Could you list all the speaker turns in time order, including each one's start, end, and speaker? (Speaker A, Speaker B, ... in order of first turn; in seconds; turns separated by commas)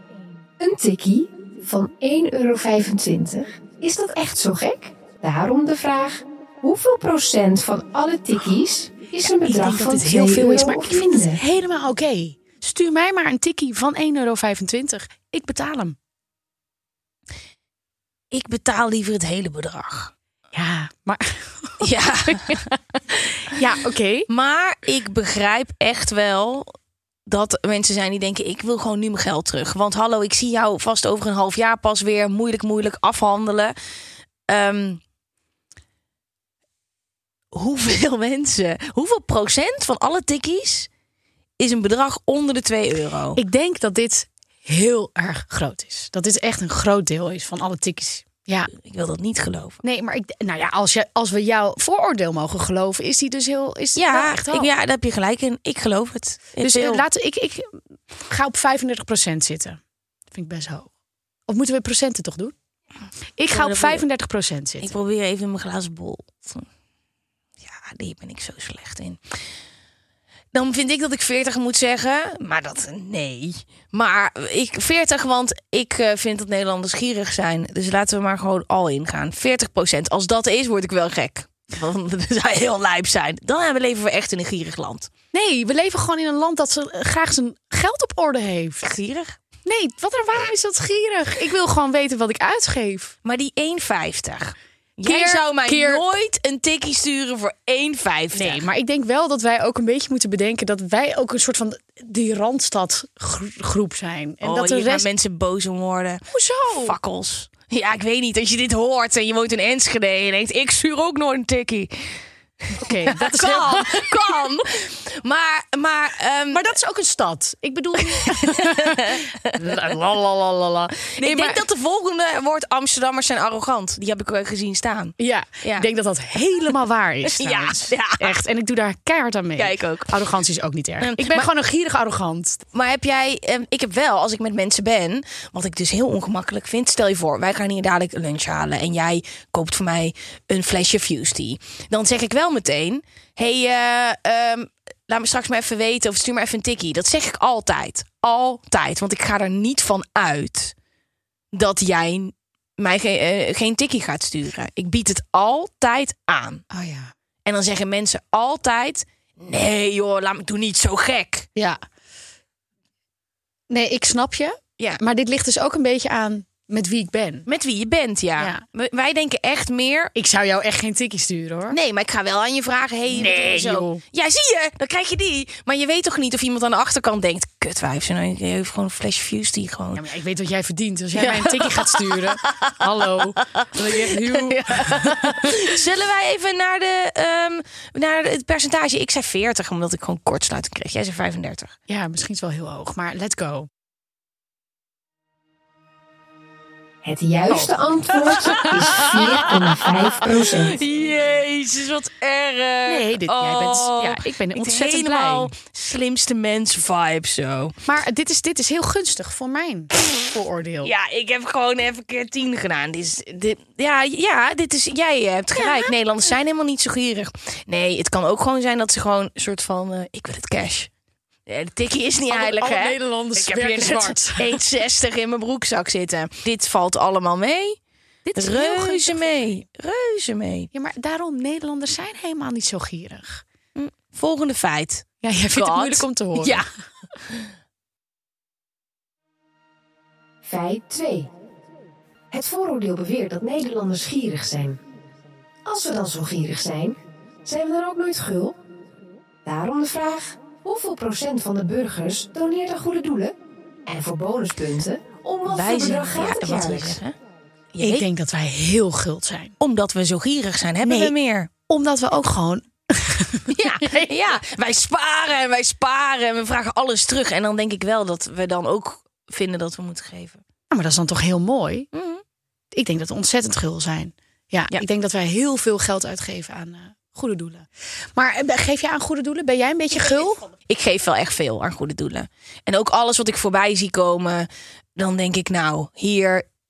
Speaker A: 0.6-11.4, Speaker B: 9.4-16.0, Speaker C: 18.3-20.1, Speaker B: 20.5-24.3, Speaker C: 21.8-22.6, Speaker C: 24.3-26.7, Speaker C: 27.3-33.7, Speaker C: 34.5-35.0, Speaker C: 37.5-40.9, Speaker C: 41.6-43.4, Speaker B: 43.4-48.7, Speaker C: 48.7-49.8, Speaker B: 49.8-54.7, Speaker C: 54.0-57.0, Speaker B: 56.6-59.8, Speaker B: 60.3-60.9, Speaker B: 61.5-62.5, Speaker B: 63.4-64.9, Speaker C: 63.5-64.0, Speaker C: 64.8-66.7, Speaker C: 67.6-69.2, Speaker C: 70.5-85.1, Speaker B: 85.3-88.9, Speaker C: 88.8-89.4, Speaker B: 89.6-93.1, Speaker C: 93.2-98.6, Speaker B: 95.0-96.0, Speaker B: 98.3-105.0, Speaker C: 104.4-112.1, Speaker B: 106.3-107.0, Speaker C: 112.6-116.7, Speaker B: 112.8-114.5, Speaker B: 116.5-121.6, Speaker C: 118.2-119.5, Speaker C: 121.1-125.9, Speaker B: 125.2-132.6, Speaker C: 127.4-128.3, Speaker C: 129.6-130.2, Speaker C: 131.0-131.5, Speaker C: 132.7-150.7, Speaker C: 151.5-156.6, Speaker B: 156.7-157.1, Speaker C: 157.4-161.5, Speaker B: 161.6-161.8, Speaker B: 163.7-167.5, Speaker C: 167.5-170.1, Speaker B: 168.4-168.6, Speaker B: 170.1-171.8, Speaker C: 171.7-180.0, Speaker B: 173.1-174.0, Speaker B: 179.9-185.6, Speaker C: 181.1-191.7, Speaker B: 191.9-193.7, Speaker A: 197.0-200.8, Speaker C: 198.4-207.8, Speaker B: 198.5-199.2, Speaker B: 202.9-205.5, Speaker B: 207.9-210.9, Speaker C: 210.8-220.9, Speaker B: 215.5-215.9, Speaker C: 221.5-227.8, Speaker B: 222.3-224.6, Speaker B: 228.2-229.4, Speaker C: 228.4-230.7, Speaker B: 230.7-233.4, Speaker C: 233.8-236.6, Speaker B: 235.2-236.6, Speaker A: 240.4-241.3, Speaker A: 242.3-244.8, Speaker A: 245.6-248.6, Speaker A: 249.4-253.3, Speaker A: 253.9-257.0, Speaker C: 255.5-257.1, Speaker C: 257.7-258.0, Speaker B: 257.8-259.5, Speaker C: 259.6-261.5, Speaker B: 260.8-261.1, Speaker B: 261.7-264.1, Speaker C: 263.5-270.4, Speaker B: 270.7-271.9, Speaker C: 271.9-272.2, Speaker B: 272.7-280.5, Speaker C: 280.7-286.4